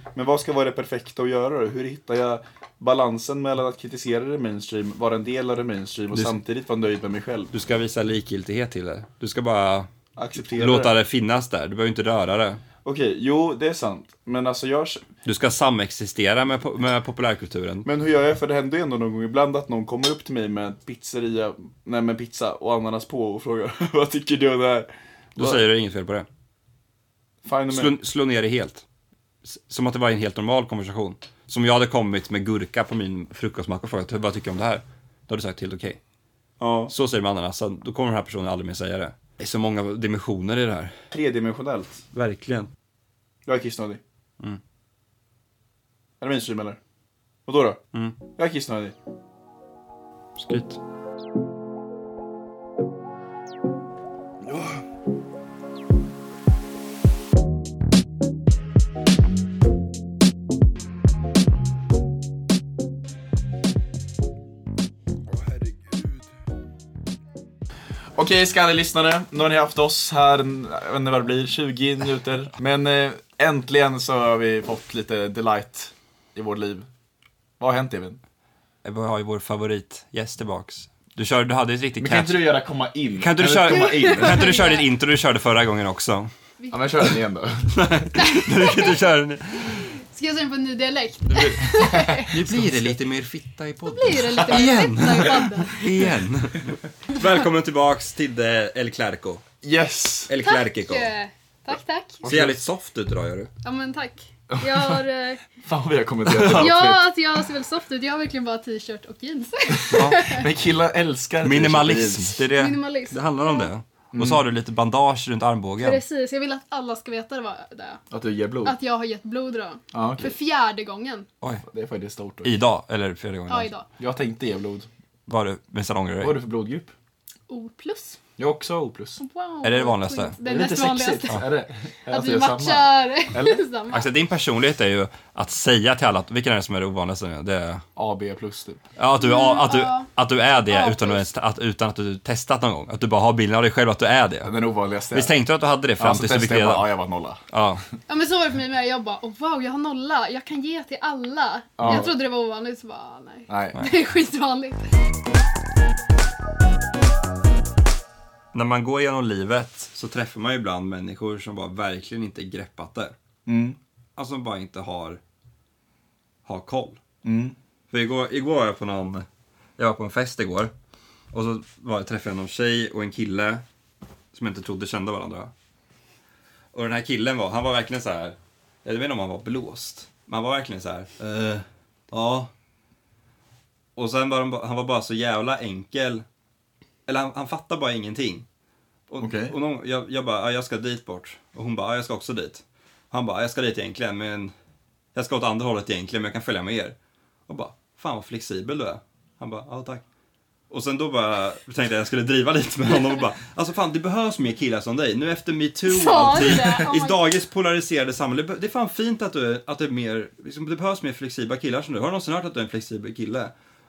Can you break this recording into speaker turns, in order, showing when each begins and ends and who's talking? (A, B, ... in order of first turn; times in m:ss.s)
0:00.2-0:07.5 A
0:06.1-0:06.4 B
0:07.5-0:12.6 B
0:10.2-0:11.0 A
0:12.8-0:15.0 A
0:15.2-0:17.9 B
0:17.8-0:25.6 A
0:25.4-0:26.3 B
0:27.4-0:28.0 A
0:27.7-0:28.8 B
0:29.5-0:36.0 B
0:36.6-0:36.9 A
0:36.9-0:41.0 B
0:41.1-0:42.0 A
0:42.1-0:42.7 B
0:43.5-0:44.0 A
0:46.2-0:46.8 A
0:47.5-0:47.8 A
0:48.4-0:49.0 A
0:50.4-0:50.8 B
1:05.4-1:06.2 A
1:08.2-1:16.9 A
1:17.6-1:18.2 A
1:18.8-1:22.5 B
1:22.0-1:24.6 A
1:23.2-1:26.3 B
1:23.7-1:24.9 C
1:26.6-1:26.8 C
1:26.7-1:27.8 A
1:27.7-1:29.8 B
1:28.3-1:29.0 C
1:29.7-1:32.4 C
1:31.4-1:32.8 A
1:32.3-1:39.4 B
1:33.9-1:36.1 C
1:39.6-1:40.3 A
1:40.3-1:41.1 B
1:40.4-1:42.3 C
1:42.2-1:43.5 B
1:42.3-1:42.6 A
1:43.6-1:45.4 C
1:44.5-1:45.0 A
1:45.6-1:47.1 A
1:46.3-1:46.7 B
1:46.5-1:50.4 C
1:49.9-1:50.2 B
1:50.0-1:52.4 A
1:51.4-1:56.0 B
1:52.6-1:53.7 C
1:54.1-1:54.4 A
1:55.8-1:58.0 C
1:58.1-1:58.8 A
1:58.6-2:01.3 C
1:59.9-2:00.4 A
2:01.7-2:02.6 A
2:02.4-2:03.7 B
2:03.5-2:03.9 C
2:04.0-2:04.9 A
2:05.3-2:06.4 B
2:06.2-2:06.9 A
2:07.5-2:08.2 C
2:08.4-2:09.2 A
2:09.2-2:11.5 C
2:09.6-2:10.4 B
2:10.4-2:13.6 A
2:12.1-2:14.1 C
2:13.9-2:17.8 B
2:18.0-2:18.8 A
2:19.0-2:24.5 B
2:19.2-2:21.2 C
2:24.4-2:25.3 A
2:25.1-2:26.9 B
2:26.0-2:27.4 A
2:27.5-2:27.8 B
2:28.1-2:34.9 C
2:31.8-2:32.1 A
2:33.5-2:33.8 A
2:38.5-2:43.2 B
2:43.5-2:43.8 A
2:44.2-2:45.2 B
2:46.5-2:47.0 B
2:47.2-2:47.6 A
2:47.9-2:49.3 B
2:49.8-2:50.7 B
2:51.3-2:53.6 B
2:54.3-2:55.5 B
2:56.7-3:02.5 B
3:04.0-3:06.2 B
3:07.1-3:08.5 B
3:09.1-3:14.5 B
3:09.2-3:09.5 A
3:15.2-3:17.0 B
3:17.5-3:20.0 B
3:20.7-3:33.5 B
3:25.9-3:27.2 C